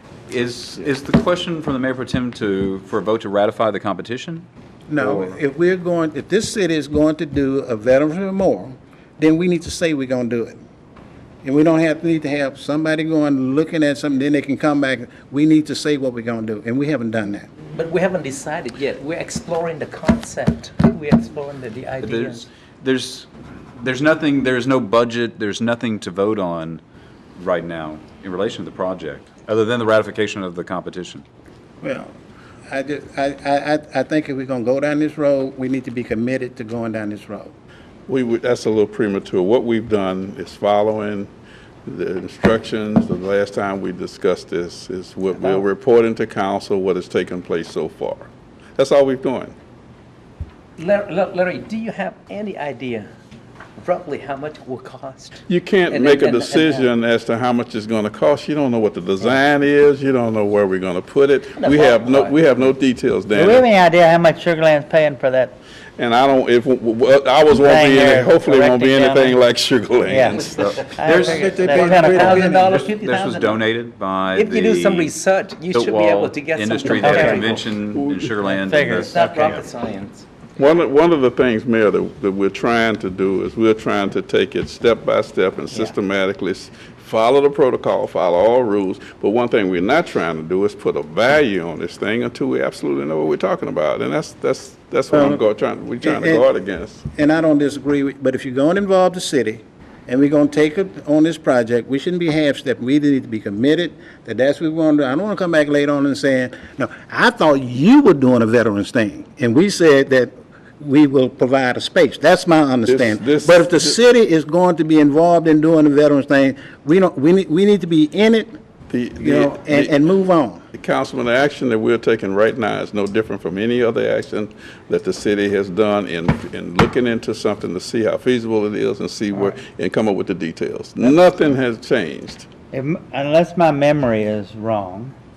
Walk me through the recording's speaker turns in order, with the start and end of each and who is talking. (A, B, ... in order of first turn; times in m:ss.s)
0:00.3-0:04.4 A
0:04.9-0:10.6 B
0:05.0-0:05.3 A
0:11.4-0:17.5 B
0:17.7-0:22.5 C
0:22.0-0:26.8 A
0:27.4-0:31.2 A
0:31.8-0:32.1 B
0:32.7-0:37.5 B
0:38.1-0:41.3 D
0:41.8-0:49.5 D
0:50.8-0:53.1 C
0:53.8-0:56.9 C
0:55.5-1:03.7 D
1:01.6-1:02.7 C
1:03.3-1:05.6 E
1:06.0-1:10.8 D
1:07.6-1:09.4 E
1:10.0-1:10.4 E
1:10.3-1:13.6 C
1:10.6-1:11.4 A
1:10.9-1:12.5 E
1:11.1-1:12.9 B
1:12.3-1:15.2 A
1:14.3-1:17.7 C
1:15.7-1:19.6 A
1:17.0-1:17.5 E
1:17.5-1:18.3 D
1:18.4-1:19.6 E
1:19.1-1:20.2 C
1:20.6-1:37.0 D
1:35.1-1:35.4 B
1:36.0-1:36.4 B
1:37.1-1:58.6 B
1:52.9-1:54.0 D
1:58.9-1:59.9 D
1:59.2-2:00.6 B
2:00.7-2:12.4 D
2:12.7-2:15.1 E